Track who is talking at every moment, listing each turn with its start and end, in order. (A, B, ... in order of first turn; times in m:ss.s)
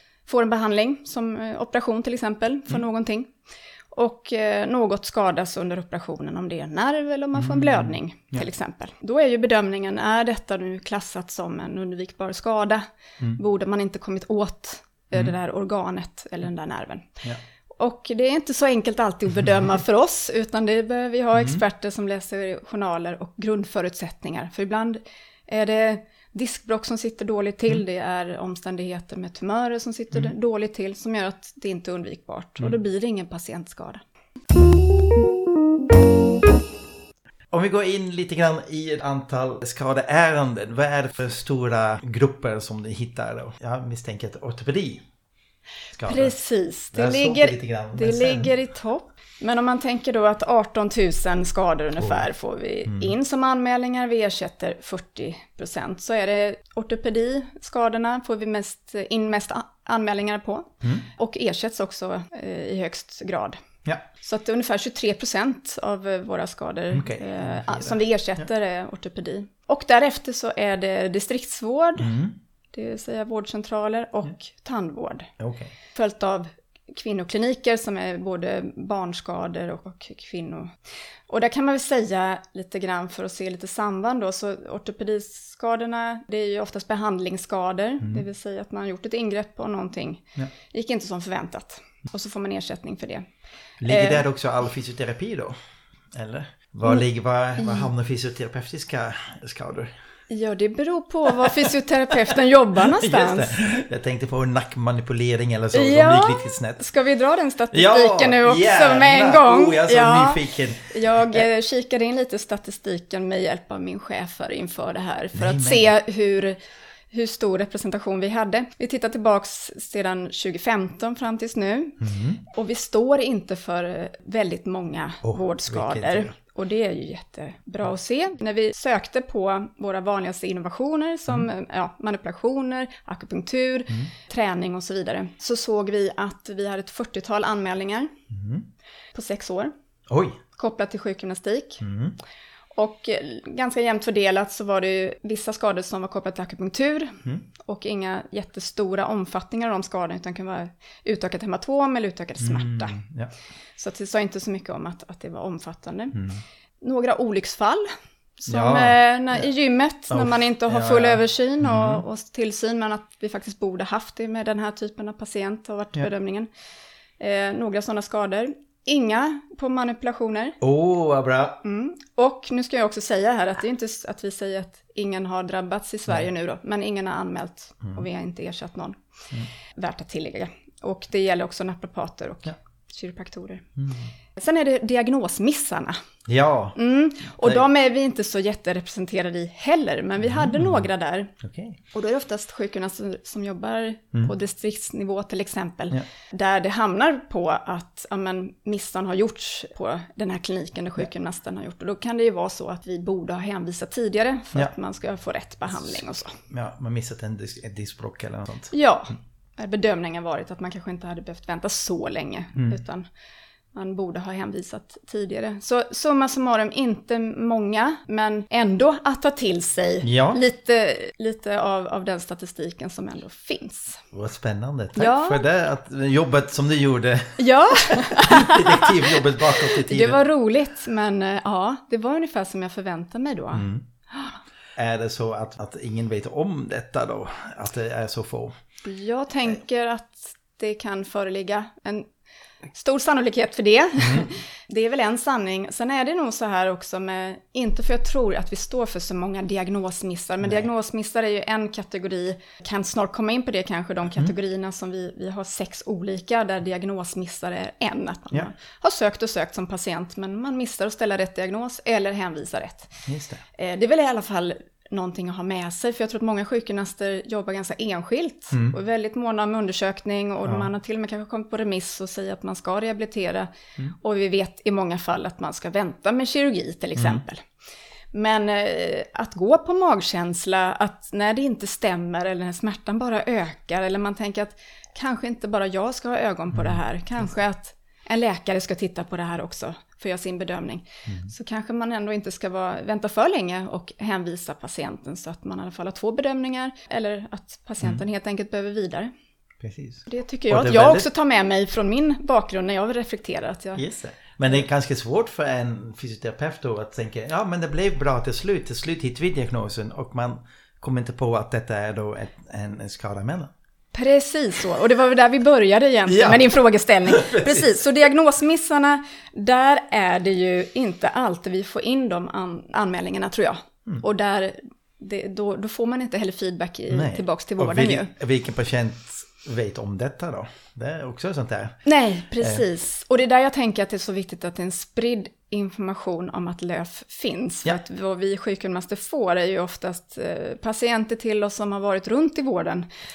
0:00.3-0:03.3 A
0:03.9-0:17.2 A
0:07.4-0:08.5 B
0:17.8-0:34.0 A
0:21.4-0:21.6 B
0:37.5-0:45.0 B
0:45.9-0:46.4 B
0:46.0-1:03.6 A
0:46.9-0:48.5 B
0:52.0-0:52.3 B
0:52.8-0:53.2 B
1:04.2-1:12.1 A
1:06.9-1:08.0 B
1:12.0-1:12.4 B
1:12.7-1:15.3 A
1:15.4-1:15.7 B
1:16.0-1:20.7 A
1:21.3-1:33.3 A
1:33.8-1:35.6 B
1:33.9-1:34.2 A
1:36.1-1:39.9 B
1:37.6-1:37.9 A
1:40.3-1:43.6 A
1:42.8-1:46.8 B
1:45.7-1:56.6 A
1:47.7-1:51.4 B
1:55.4-1:55.9 B
1:57.1-2:18.1 A
2:02.0-2:02.4 B
2:05.2-2:06.3 B
2:18.3-2:18.7 B
2:19.1-2:19.7 A
2:20.1-2:20.4 B
2:20.6-2:21.8 A
2:21.8-2:22.2 B
2:22.8-2:33.0 A
2:32.4-2:33.3 B
2:33.8-2:36.2 A
2:36.1-2:36.4 B
2:36.8-2:37.9 A
2:38.4-2:46.5 A
2:38.5-2:39.4 B
2:40.1-2:42.0 B
2:47.2-2:50.6 A
2:50.6-2:51.6 B
2:51.6-2:59.0 A
2:59.8-3:03.7 A
3:03.8-3:04.1 B
3:04.4-3:06.0 A
3:06.3-3:06.8 B
3:06.8-3:11.3 A
3:07.4-3:07.7 B
3:10.2-3:10.9 B
3:11.4-3:11.8 B
3:11.9-3:26.4 A
3:25.7-3:28.7 B
3:28.7-3:33.0 A
3:33.7-3:44.0 A
3:40.0-3:40.4 B
3:44.1-3:50.2 B
3:45.0-3:45.4 A
3:47.4-3:54.4 A
3:53.5-3:53.9 B
3:54.8-3:58.5 B
3:58.8-4:02.1 A
4:02.7-4:23.0 A
4:04.0-4:04.3 B
4:23.1-4:23.4 B
4:23.6-4:37.4 A
4:28.5-4:28.8 B
4:37.0-4:37.2 B
4:38.1-4:59.1 A
4:46.5-4:46.8 B
4:59.6-5:01.1 B
5:00.1-5:03.8 A
5:03.8-5:13.5 B
5:13.9-5:28.1 A
5:16.1-5:17.8 B
5:26.9-5:31.8 B
5:31.8-5:42.9 A
5:32.4-5:32.6 B